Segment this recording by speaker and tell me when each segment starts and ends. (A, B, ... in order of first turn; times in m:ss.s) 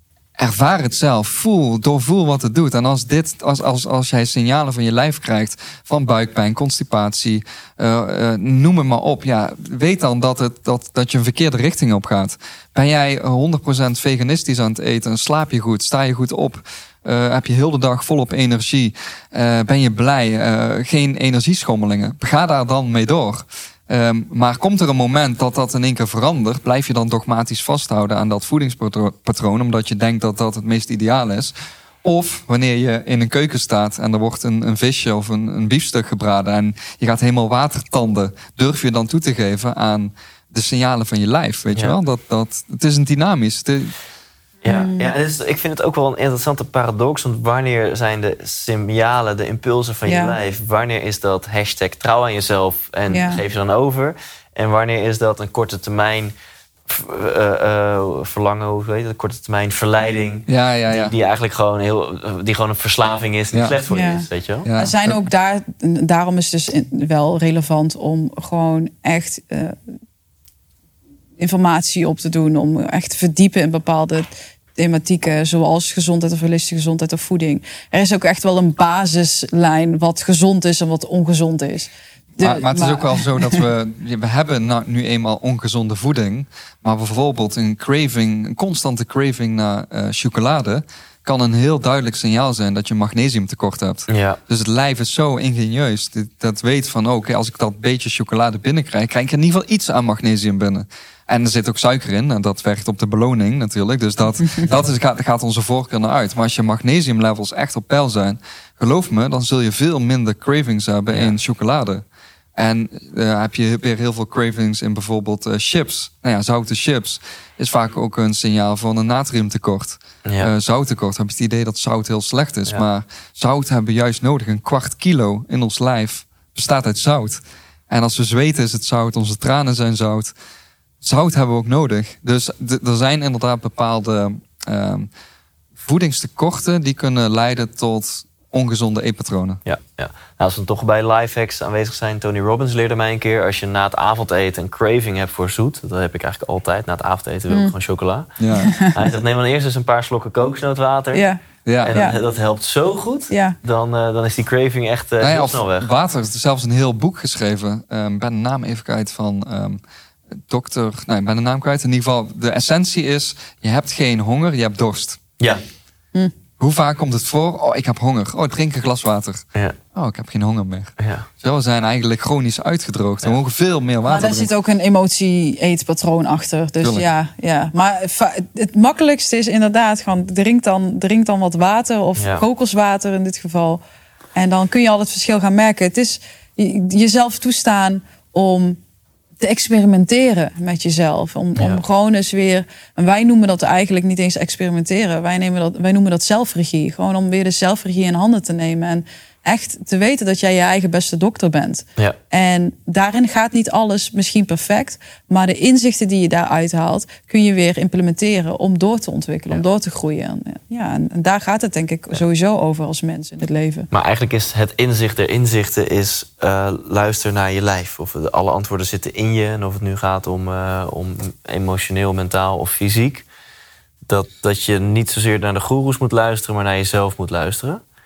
0:00.4-0:43.9 A
0:44.6-0:56.3 B
0:44.7-0:45.1 C
0:50.0-0:50.4 C
0:53.1-0:53.4 C
0:56.9-1:04.7 B
1:00.5-1:01.1 A
1:03.9-1:09.8 C
1:04.6-1:05.2 A
1:11.4-1:23.6 C
1:22.4-1:52.0 A
1:34.1-1:34.4 B
1:51.1-1:51.4 B
1:52.6-2:10.3 A
2:00.2-2:00.5 B
2:11.0-2:15.1 A
2:15.8-2:19.6 A
2:19.7-2:31.2 B
2:28.4-2:28.7 A
2:28.6-2:28.9 C
2:31.1-2:32.2 C
2:31.7-2:32.0 A
2:31.8-2:35.9 B
2:33.3-2:33.6 C
2:35.2-2:39.8 A
2:40.5-2:45.2 A
2:46.6-2:49.4 A
2:50.0-2:54.5 A
2:51.0-2:51.3 B
2:54.1-3:03.8 C
3:02.2-3:02.4 B
3:04.3-3:08.8 C
3:09.4-3:33.9 C
3:11.6-3:11.8 B
3:33.9-3:43.3 B
3:44.1-3:47.8 B